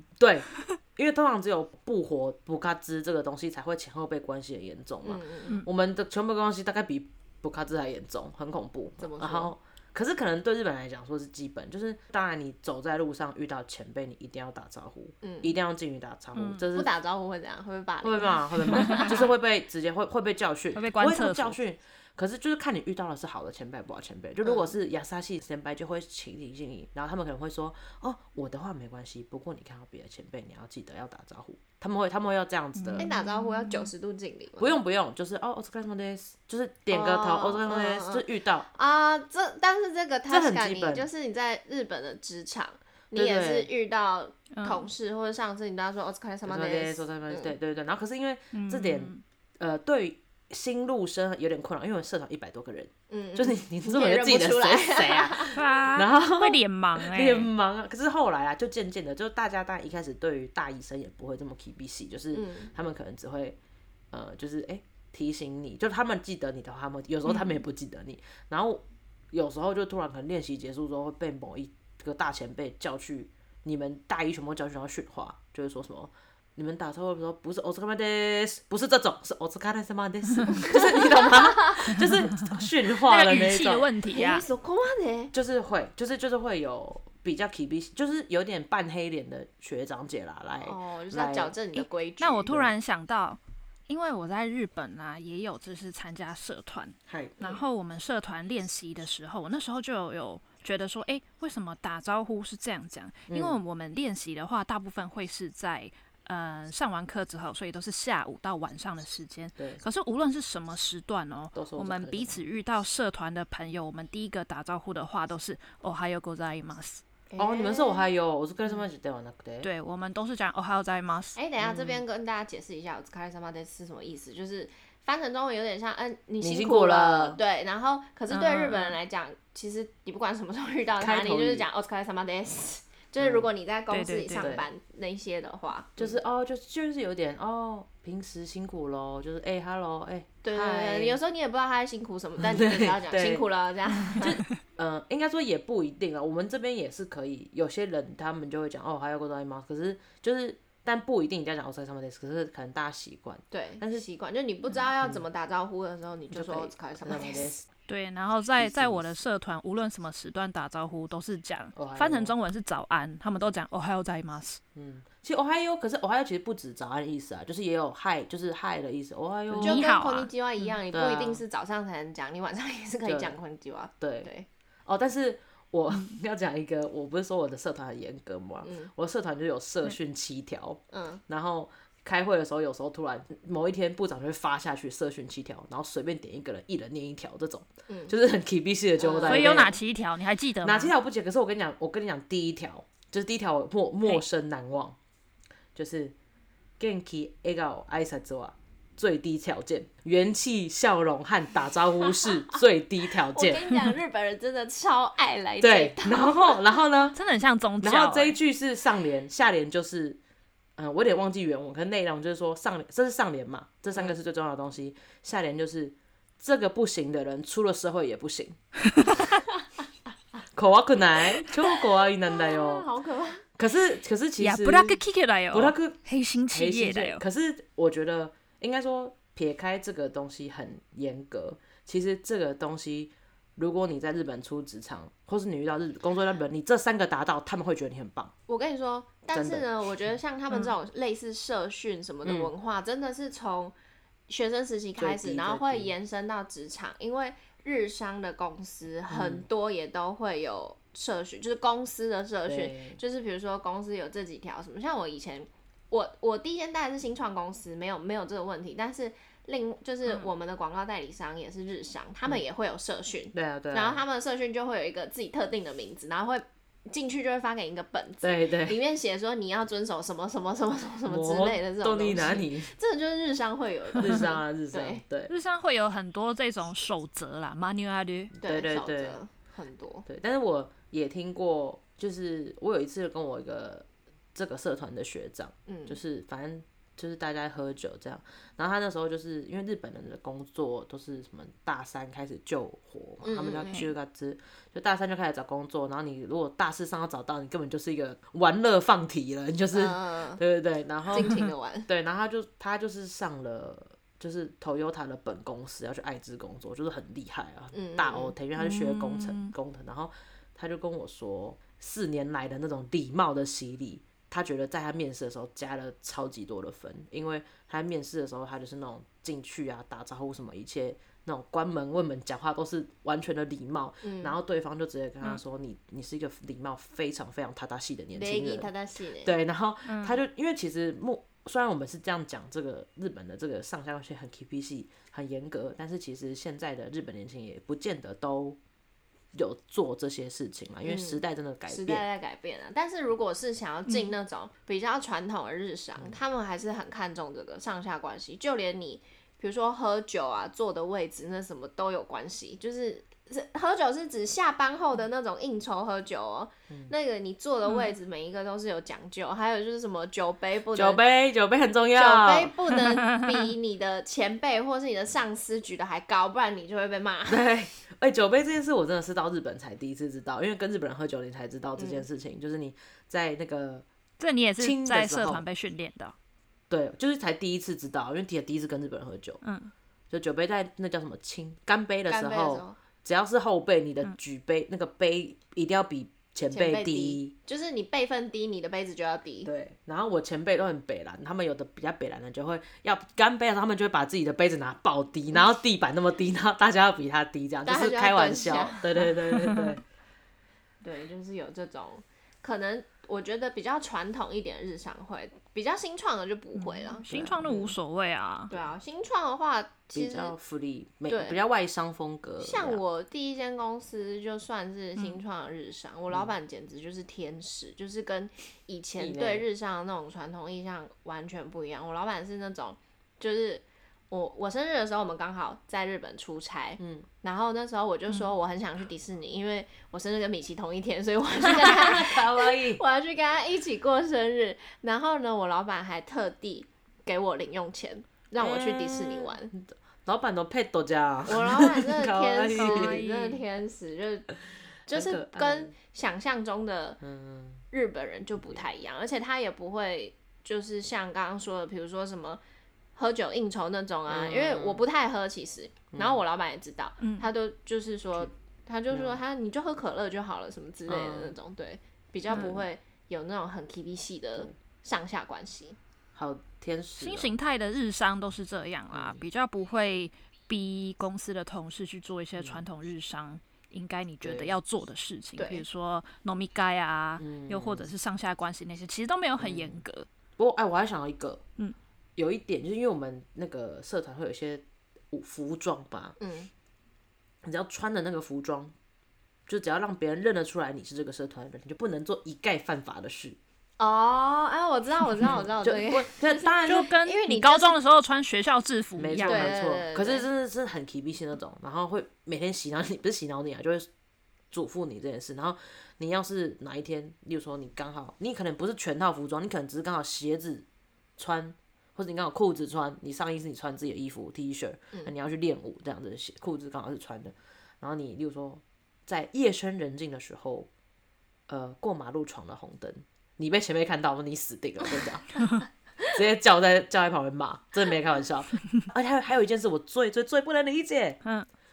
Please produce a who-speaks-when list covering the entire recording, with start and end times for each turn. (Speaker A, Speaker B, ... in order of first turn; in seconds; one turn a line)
Speaker A: 0.2-16.9
Speaker B: 5.0-5.6
Speaker B: 9.0-9.5
Speaker B: 15.2-15.6
Speaker C: 16.4-16.7
Speaker B: 16.8-19.2
Speaker A: 18.0-33.1
Speaker C: 18.8-19.1
Speaker C: 20.8-21.6
Speaker B: 24.4-24.7
Speaker C: 32.8-33.9
Speaker B: 33.0-34.8
Speaker A: 34.6-38.7
Speaker B: 36.9-47.5
Speaker A: 40.3-41.1
Speaker A: 43.1-43.7
Speaker C: 44.5-44.9
Speaker A: 46.5-63.6
Speaker C: 48.5-49.2
Speaker B: 53.1-55.6
Speaker C: 55.5-57.5
Speaker B: 62.3-62.7
Speaker A: 64.1-83.9
Speaker C: 67.3-67.6
Speaker B: 80.7-81.9
Speaker C: 82.0-84.5
Speaker B: 84.1-85.3
Speaker A: 85.3-91.6
Speaker B: 90.6-92.5
Speaker C: 92.2-117.0
Speaker A: 92.5-92.7
Speaker A: 97.1-97.4
Speaker A: 103.3-103.6
Speaker A: 111.5-112.4
Speaker B: 117.3-118.1
Speaker A: 117.4-119.7
Speaker C: 119.6-121.4
Speaker B: 121.3-136.2
Speaker A: 121.6-122.0
Speaker A: 126.4-127.4
Speaker C: 128.3-129.0
Speaker A: 131.0-131.7
Speaker A: 133.2-133.5
Speaker C: 133.9-134.6
Speaker A: 134.4-134.7
Speaker A: 136.0-141.2
Speaker B: 140.4-144.3
Speaker A: 142.4-143.4
Speaker A: 144.2-154.0
Speaker B: 153.5-157.5
Speaker A: 155.0-155.2
Speaker A: 156.3-157.7
Speaker C: 157.9-164.6
Speaker A: 158.6-159.1
Speaker A: 161.8-162.3
Speaker A: 164.8-169.9
Speaker C: 169.5-170.7
Speaker B: 169.6-174.5
Speaker A: 170.9-171.4
Speaker A: 173.1-173.4
Speaker A: 174.0-174.3
Speaker A: 174.9-189.8
Speaker B: 178.6-178.9
Speaker B: 180.9-181.2
Speaker B: 187.9-188.1
Speaker B: 189.0-189.7
Speaker C: 189.3-190.9
Speaker A: 190.6-195.0
Speaker A: 195.8-196.2
Speaker A: 196.8-203.9
Speaker B: 203.3-206.6
Speaker A: 205.6-207.2
Speaker C: 207.2-208.4
Speaker A: 207.8-210.2
Speaker A: 210.8-218.6
Speaker C: 218.9-219.2
Speaker A: 220.6-222.9
Speaker B: 222.3-223.4
Speaker A: 223.6-225.0
Speaker C: 224.4-227.2
Speaker A: 225.5-226.0
Speaker A: 226.5-238.3
Speaker B: 238.5-243.8
Speaker A: 239.3-240.1
Speaker A: 242.2-242.5
Speaker B: 244.3-275.0
Speaker A: 245.0-245.9
Speaker A: 249.1-249.4
Speaker A: 252.5-253.0
Speaker A: 263.3-264.0
Speaker A: 268.2-268.8
Speaker A: 271.1-272.7
Speaker A: 274.0-275.3
Speaker C: 275.3-278.3
Speaker A: 278.3-279.2
Speaker B: 278.4-280.1
Speaker A: 280.1-328.7
Speaker B: 285.7-286.0
Speaker B: 293.2-293.9
Speaker B: 299.7-300.4
Speaker B: 301.1-301.9
Speaker B: 307.7-308.4
Speaker C: 308.6-309.6
Speaker B: 324.0-324.4
Speaker B: 328.1-329.3
Speaker A: 329.2-338.6
Speaker C: 329.9-330.2
Speaker A: 339.3-342.1
Speaker B: 340.8-361.0
Speaker C: 343.9-344.1
Speaker A: 360.7-362.6
Speaker B: 361.9-367.5
Speaker A: 367.3-373.9
Speaker B: 371.8-372.1
Speaker C: 374.2-376.1
Speaker A: 374.6-375.4
Speaker A: 376.7-379.4
Speaker C: 379.4-379.7
Speaker A: 380.1-387.3
Speaker B: 382.1-382.8
Speaker B: 386.5-389.5
Speaker A: 389.4-399.8
Speaker B: 397.6-398.9
Speaker C: 399.4-399.8
Speaker B: 400.8-407.7
Speaker C: 406.6-408.5
Speaker A: 407.1-407.7
Speaker B: 408.5-410.4
Speaker A: 409.9-412.8
Speaker B: 411.1-411.4
Speaker B: 412.4-439.5
Speaker A: 419.0-419.5
Speaker A: 426.8-427.1
Speaker A: 431.4-432.8
Speaker A: 438.4-443.0
Speaker B: 441.3-444.3
Speaker C: 442.6-443.4
Speaker B: 444.9-447.0
Speaker A: 444.9-445.7
Speaker A: 447.0-447.6
Speaker B: 447.7-452.4
Speaker B: 453.0-465.8
Speaker A: 454.1-454.9
Speaker A: 455.9-456.2
Speaker C: 457.0-457.3
Speaker A: 458.9-459.2
Speaker A: 460.9-461.4
Speaker A: 462.3-462.7
Speaker C: 462.3-462.6
Speaker A: 466.1-467.4
Speaker C: 467.0-480.1
Speaker A: 468.9-469.2
Speaker A: 474.2-474.5
Speaker B: 475.4-475.6
Speaker A: 477.2-477.9
Speaker A: 479.4-479.8
Speaker A: 480.4-481.4
Speaker A: 482.2-486.2
Speaker B: 486.2-486.5
Speaker A: 487.4-488.7
Speaker A: 489.5-493.4
Speaker B: 493.8-497.8
Speaker A: 495.3-496.9
Speaker C: 496.7-499.5
Speaker A: 499.0-503.9
Speaker B: 499.2-500.3
Speaker A: 504.5-510.7
Speaker A: 511.2-520.7
Speaker A: 521.5-525.4
Speaker A: 526.1-531.2